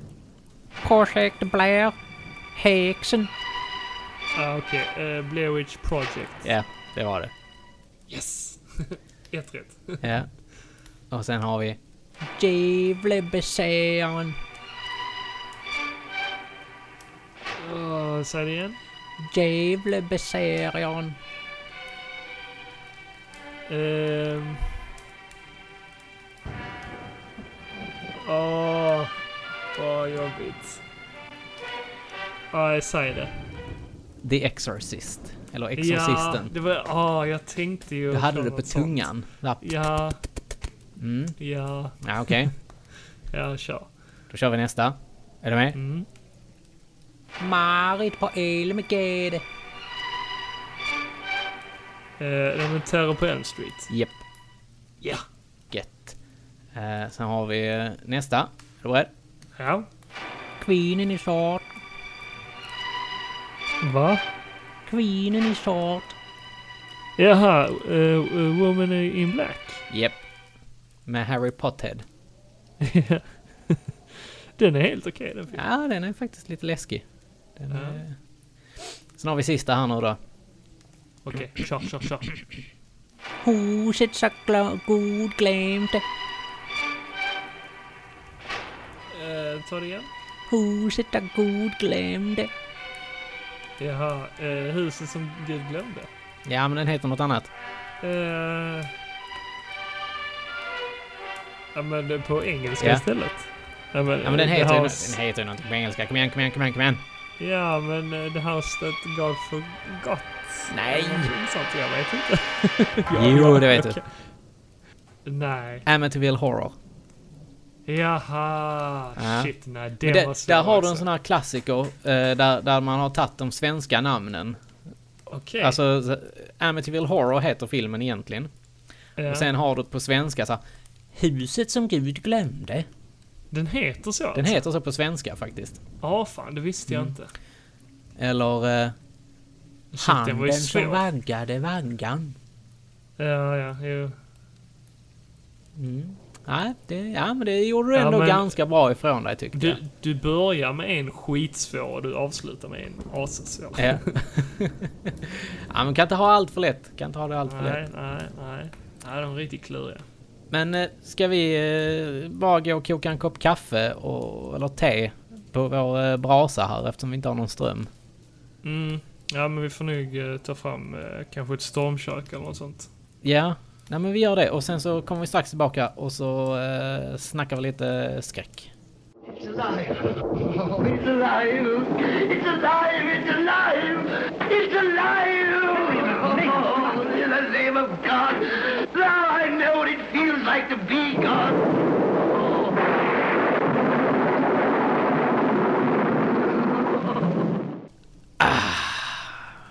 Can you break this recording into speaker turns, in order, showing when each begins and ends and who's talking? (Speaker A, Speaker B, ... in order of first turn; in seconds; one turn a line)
Speaker A: 0.8-1.9
Speaker A: 2.5-3.3
Speaker B: 4.3-6.5
Speaker A: 6.4-7.3
Speaker B: 8.1-10.0
Speaker A: 10.0-10.3
Speaker A: 11.1-11.8
Speaker A: 12.4-14.3
Speaker B: 17.5-18.8
Speaker A: 19.3-21.1
Speaker B: 23.7-24.7
Speaker B: 28.2-29.1
Speaker B: 29.8-30.8
Speaker B: 32.5-33.3
Speaker A: 34.2-36.5
Speaker B: 35.8-39.0
Speaker A: 38.1-39.7
Speaker B: 39.6-40.2
Speaker A: 41.0-41.4
Speaker B: 41.4-42.5
Speaker A: 42.0-42.5
Speaker B: 43.3-43.9
Speaker A: 44.3-45.8
Speaker B: 45.7-46.1
Speaker A: 47.4-49.4
Speaker B: 52.2-53.9
Speaker A: 53.9-54.2
Speaker A: 55.7-56.2
Speaker A: 56.7-59.1
Speaker B: 59.5-59.9
Speaker A: 60.6-61.6
Speaker B: 63.8-64.2
Speaker A: 64.9-66.1
Speaker B: 67.2-69.8
Speaker A: 69.9-70.2
Speaker A: 71.0-72.0
Speaker B: 72.8-75.6
Speaker A: 75.5-77.0
Speaker A: 77.6-78.2
Speaker B: 77.7-78.0
Speaker A: 79.2-80.2
Speaker B: 81.2-82.3
Speaker A: 83.4-86.0
Speaker B: 89.1-90.1
Speaker A: 90.5-92.5
Speaker B: 93.8-96.1
Speaker A: 96.5-97.5
Speaker B: 98.0-98.9
Speaker B: 101.7-105.2
Speaker A: 102.8-103.0
Speaker A: 104.2-107.0
Speaker B: 107.4-114.1
Speaker A: 110.7-111.3
Speaker A: 113.1-114.0
Speaker B: 115.2-115.8
Speaker A: 115.8-116.7
Speaker B: 117.8-121.1
Speaker A: 119.2-119.5
Speaker A: 120.0-124.6
Speaker B: 125.3-125.8
Speaker A: 125.6-128.5
Speaker B: 129.2-129.5
Speaker A: 129.2-130.6
Speaker A: 131.1-132.9
Speaker B: 133.5-134.6
Speaker A: 134.3-135.8
Speaker B: 136.0-137.3
Speaker A: 136.9-137.1
Speaker A: 138.2-138.9
Speaker B: 139.9-141.0
Speaker A: 140.0-142.3
Speaker B: 143.2-144.1
Speaker A: 145.8-149.8
Speaker B: 147.9-148.5
Speaker B: 149.5-154.2
Speaker A: 153.8-157.9
Speaker B: 157.5-160.1
Speaker A: 160.5-167.9
Speaker B: 168.6-172.9
Speaker A: 173.2-178.7
Speaker C: 179.3-191.6
Speaker C: 192.3-192.9
Speaker A: 198.4-199.5